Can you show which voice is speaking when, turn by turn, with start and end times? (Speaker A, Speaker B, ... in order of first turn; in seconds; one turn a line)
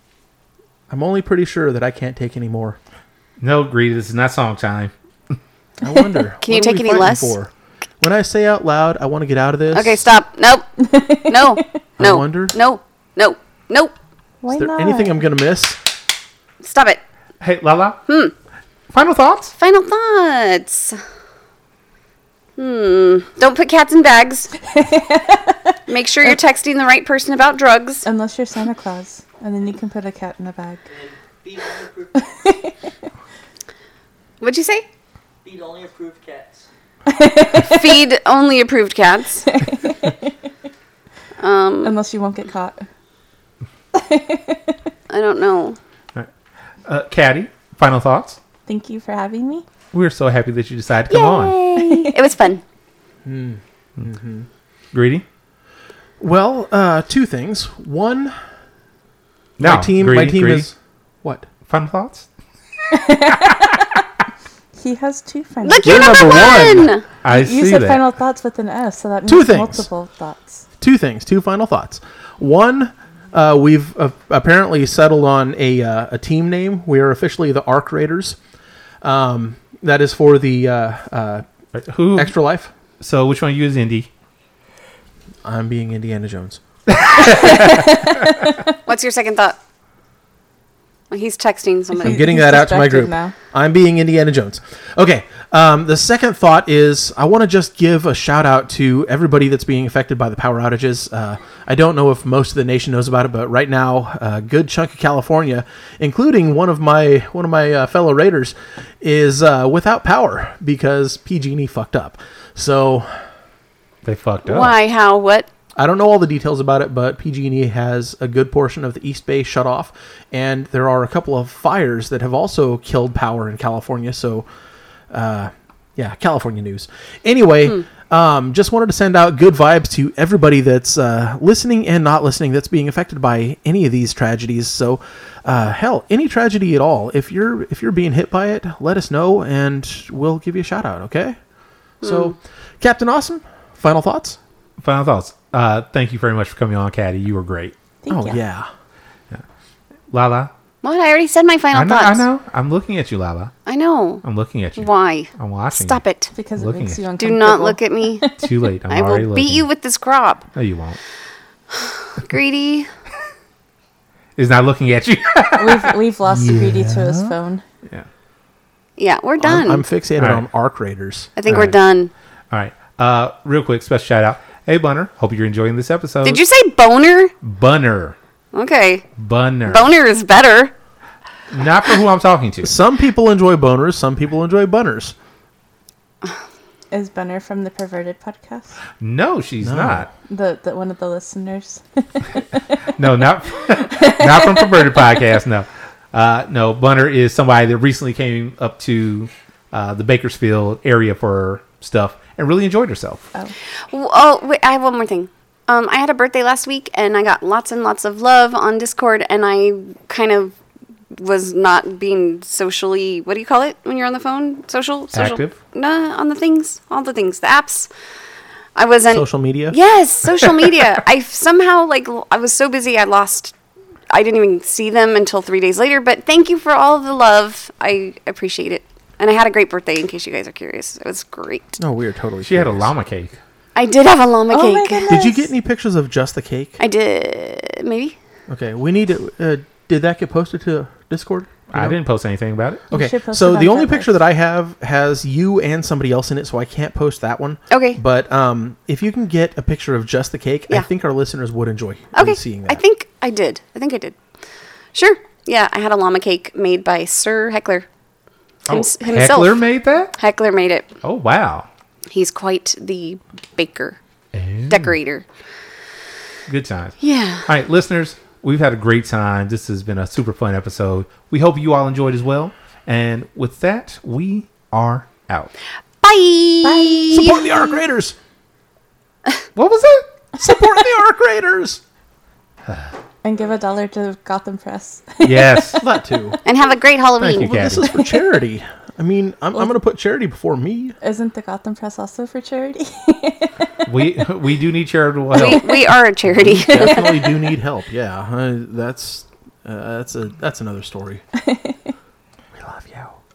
Speaker A: 0.9-2.8
Speaker B: 3.4-5.4
Speaker A: 5.8-10.0
Speaker C: 6.4-7.3
Speaker C: 9.7-13.9
Speaker D: 10.8-11.4
Speaker A: 12.0-12.6
Speaker D: 14.4-15.2
Speaker A: 14.5-15.8
Speaker C: 16.6-17.0
Speaker B: 17.4-18.0
Speaker C: 18.1-18.3
Speaker B: 18.9-19.6
Speaker C: 19.6-21.0
Speaker C: 22.6-24.5
Speaker D: 24.7-25.8
Speaker C: 25.9-28.1
Speaker D: 28.1-30.9
Speaker E: 30.9-32.6
Speaker D: 32.3-32.7
Speaker C: 34.4-34.9
Speaker E: 35.4-36.7
Speaker D: 37.1-37.9
Speaker C: 37.6-39.5
Speaker D: 39.5-40.2
Speaker C: 41.4-41.9
Speaker D: 41.8-42.9
Speaker D: 43.9-44.7
Speaker C: 45.1-45.8
Speaker B: 46.9-48.4
Speaker D: 48.7-49.6
Speaker B: 49.9-51.6
Speaker C: 51.1-52.6
Speaker D: 51.8-52.2
Speaker A: 53.2-54.5
Speaker B: 54.9-55.2
Speaker A: 56.2-58.4
Speaker B: 59.6-60.7
Speaker A: 59.6-61.5
Speaker B: 61.7-62.3
Speaker D: 62.9-63.9
Speaker D: 64.7-66.0
Speaker C: 65.6-67.0
Speaker A: 65.8-66.9
Speaker B: 67.2-68.1
Speaker D: 67.3-70.7
Speaker A: 69.3-69.9
Speaker A: 70.8-78.4
Speaker A: 79.0-81.5
Speaker B: 81.7-82.4
Speaker A: 82.2-82.7
Speaker B: 83.0-84.1
Speaker A: 85.4-86.6
Speaker B: 86.9-88.2
Speaker C: 88.9-89.6
Speaker C: 91.1-92.3
Speaker A: 92.0-113.1
Speaker D: 92.0-93.3
Speaker B: 114.0-114.8
Speaker C: 114.5-115.5
Speaker A: 115.8-124.5
Speaker A: 125.1-141.4
Speaker A: 142.0-144.4
Speaker C: 142.0-142.3
Speaker B: 144.8-147.7
Speaker D: 148.0-148.4
Speaker A: 148.1-148.7
Speaker B: 150.1-150.5
Speaker C: 150.8-152.2
Speaker B: 151.7-153.5
Speaker C: 153.7-154.2
Speaker B: 154.2-156.0
Speaker C: 154.8-156.3
Speaker D: 156.3-158.4
Speaker B: 156.6-157.0
Speaker C: 157.2-158.3
Speaker B: 158.3-159.7
Speaker C: 158.9-160.5
Speaker B: 160.5-161.0
Speaker C: 161.7-162.9
Speaker B: 164.4-165.9
Speaker D: 165.6-167.6
Speaker A: 166.3-167.4
Speaker C: 169.0-169.8
Speaker A: 169.4-171.3
Speaker B: 170.2-170.4
Speaker C: 171.4-172.1
Speaker B: 171.4-171.8
Speaker B: 172.5-176.4
Speaker C: 176.2-177.3
Speaker B: 177.4-178.2
Speaker C: 178.5-179.1
Speaker B: 179.2-179.9
Speaker C: 179.7-180.7
Speaker B: 181.5-182.7
Speaker A: 182.6-185.2
Speaker D: 186.9-188.8
Speaker B: 189.0-190.1
Speaker A: 189.6-190.1
Speaker D: 190.3-192.2
Speaker B: 192.9-203.3
Speaker C: 203.9-210.6
Speaker C: 211.2-217.9
Speaker B: 215.1-215.6
Speaker C: 218.7-223.5
Speaker A: 219.1-219.8
Speaker C: 224.1-231.8
Speaker A: 231.8-232.9
Speaker B: 232.4-233.4
Speaker C: 233.7-235.2
Speaker D: 234.5-235.5
Speaker A: 235.1-236.8
Speaker C: 236.8-238.2
Speaker A: 238.5-242.0
Speaker B: 241.7-242.8
Speaker A: 242.9-252.8
Speaker D: 242.9-244.2
Speaker C: 247.7-248.0
Speaker C: 252.1-254.2
Speaker C: 254.9-257.9
Speaker B: 258.7-260.2
Speaker C: 258.7-259.7
Speaker C: 260.2-260.9
Speaker B: 261.0-261.7
Speaker C: 262.1-264.0
Speaker B: 264.3-264.9
Speaker C: 264.7-265.2
Speaker B: 266.5-275.5
Speaker C: 267.0-267.5
Speaker C: 276.0-277.5
Speaker D: 276.6-277.3
Speaker A: 277.1-278.2
Speaker B: 279.6-280.1
Speaker A: 280.4-281.8
Speaker D: 283.2-285.6
Speaker B: 285.2-285.8
Speaker A: 285.8-286.4
Speaker C: 286.4-287.7
Speaker B: 287.2-287.8
Speaker A: 287.4-290.9
Speaker D: 291.0-293.7
Speaker B: 293.9-295.7
Speaker C: 295.3-297.1
Speaker A: 296.3-301.2
Speaker D: 301.4-301.9
Speaker A: 302.5-303.2